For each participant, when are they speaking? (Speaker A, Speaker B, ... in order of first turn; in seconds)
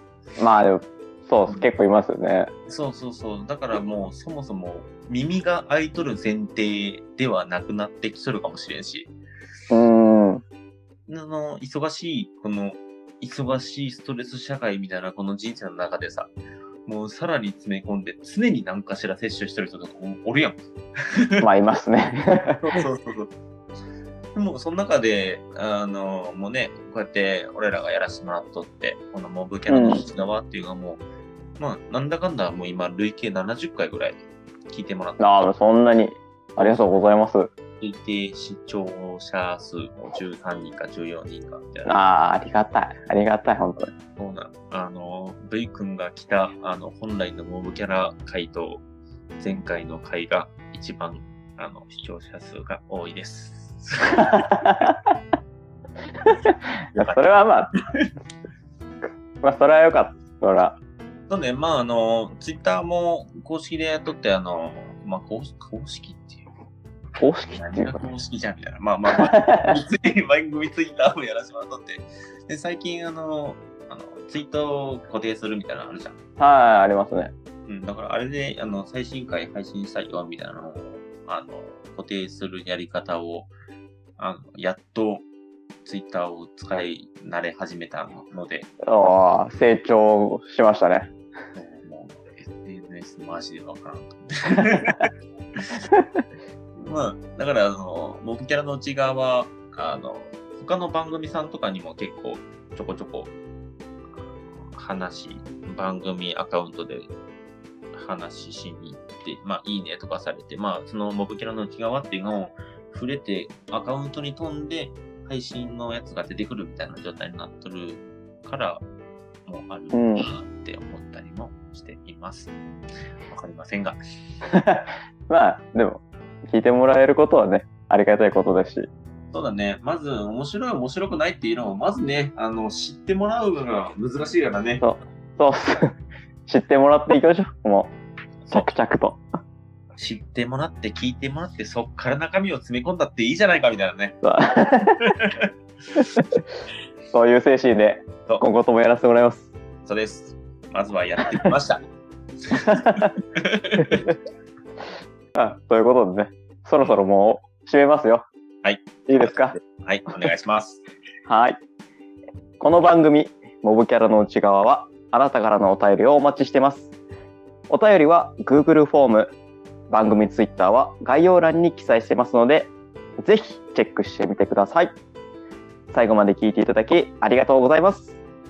Speaker A: 0.4-2.5, 9.7-10.4, 21.4-22.6, 29.7-30.0, 35.2-37.5, 41.9-43.9, 54.2-55.0, 56.2-57.7, 59.4-60.8, 67.2-68.0, 69.1-69.8, 76.4-77.3, 88.8-91.1, 119.9-120.3, 124.5-128.9, 134.8-135.9, 136.5-137.9, 138.5-139.2, 144.2-145.0, 146.0-146.4, 147.1-149.5, 152.5-153.1, 153.8-154.1, 155.3-158.2, 159.1-159.6, 161.2-161.6, 162.6-166.9, 167.7-169.3, 169.9-174.9, 175.9-178.2
Speaker B: 2.7-9.1, 11.1-16.3, 16.9-20.6, 21.1-21.4, 22.6-23.3, 24.3-31.0, 31.6-35.5, 37.8-41.9, 44.2-48.8, 49.4-54.4, 56.9-57.3, 61.3-66.5, 67.5-76.2, 77.7-83.5, 84.2-85.2, 85.8-88.7, 91.5-95.8, 96.8-103.3, 104.7-107.1, 107.9-118.8, 119.5-122.5, 123.3-124.0, 129.3-134.8, 139.9-144.2, 145.0-146.0, 149.8-151.8, 152.5-154.1, 158.6-160.8